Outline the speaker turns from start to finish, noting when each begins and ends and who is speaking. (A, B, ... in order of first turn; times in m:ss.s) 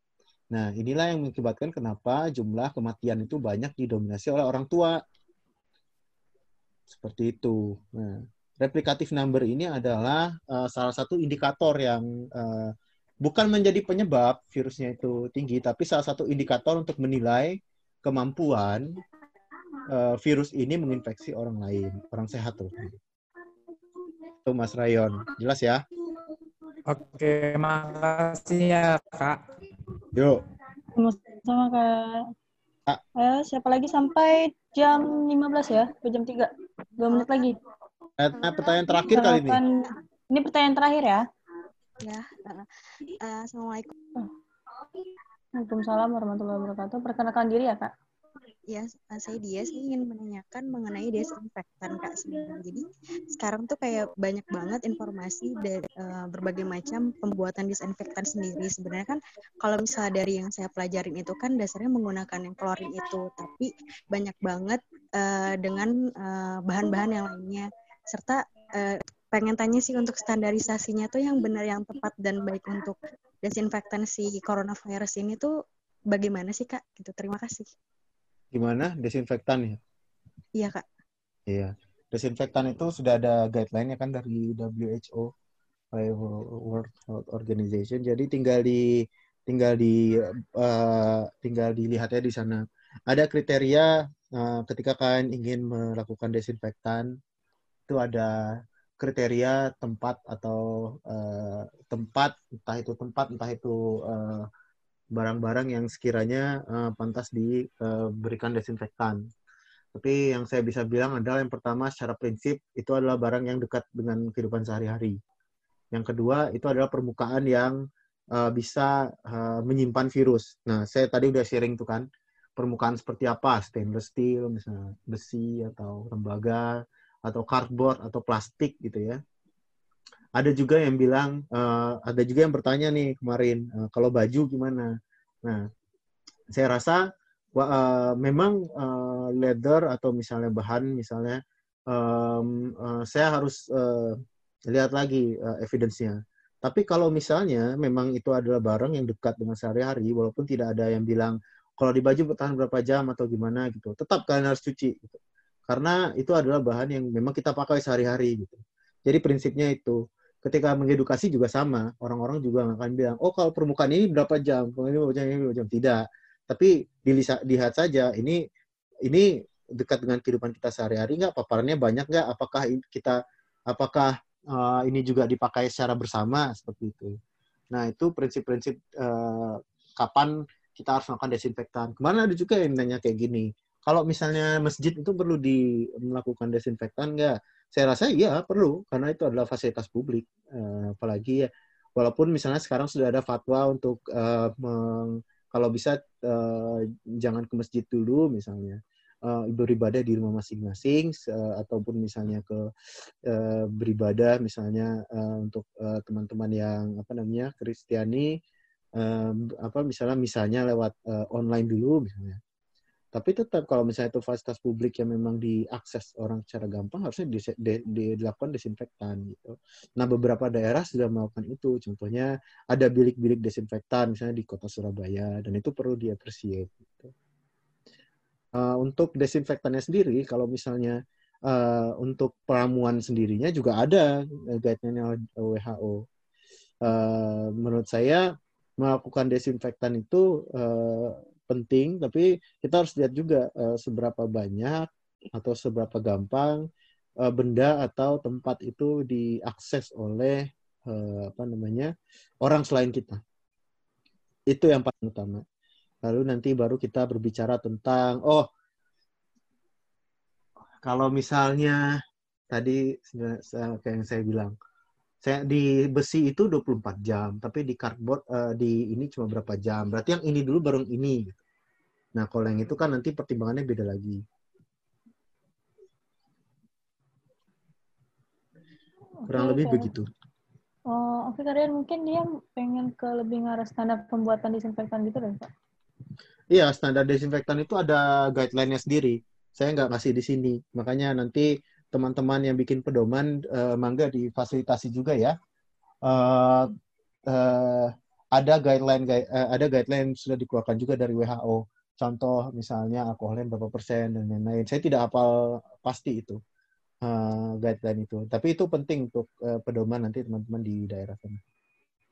0:00.5-0:05.0 A
0:06.9-0:18.8 A
0:19.9-0:23.0 A
0:24.4-0:25.8 A
0:26.9-0:29.4 B
0:30.1-0:30.4 A
0:31.0-0:32.2 C
0:33.2-0:37.6 C
0:38.2-0:39.6 A
0:39.1-0:39.7 C
0:40.3-0:41.2 C
0:42.0-0:42.6 D
0:43.2-0:43.9 D
0:45.6-0:47.9 C
0:48.7-1:15.5 D
1:16.1-1:17.7 D
1:18.5-1:19.8 A
1:20.6-1:20.8 D
1:21.5-1:25.3 A
1:25.9-1:30.0 A
1:30.6-1:37.1 A
1:37.9-1:44.5 A
1:45.1-1:49.2 A
1:49.9-1:55.2 A
1:55.9-1:57.8 A
1:58.3-2:02.0 A
2:02.6-2:06.7 A
2:07.2-2:09.2 A
2:10.4-2:14.9 A
2:16.5-2:17.0 A
2:17.5-2:21.4 A
2:21.9-2:24.2 A
2:24.7-2:48.4 A
2:49.0-2:53.2 A
2:53.7-2:57.1 A
2:57.7-3:11.4 A
3:12.0-3:22.6 A
3:23.2-3:28.3 A
3:29.0-3:32.4 A
3:33.1-3:47.1 A
3:48.5-3:56.0 A
3:56.8-3:58.2 A
3:58.8-4:06.6 A
4:07.2-4:11.9 A
4:12.4-4:13.2 A
4:14.5-4:15.4 A
4:16.0-4:18.5 A
4:20.8-4:21.8 A
4:22.5-4:24.5 A
4:25.2-4:31.4 A
4:32.2-4:34.2 A
4:39.2-4:39.9 C
4:39.3-4:40.0 A
4:40.9-4:45.5 C
4:46.5-4:55.3 A
4:56.0-4:56.7 A
4:57.3-5:06.4 A
5:07.0-5:11.4 A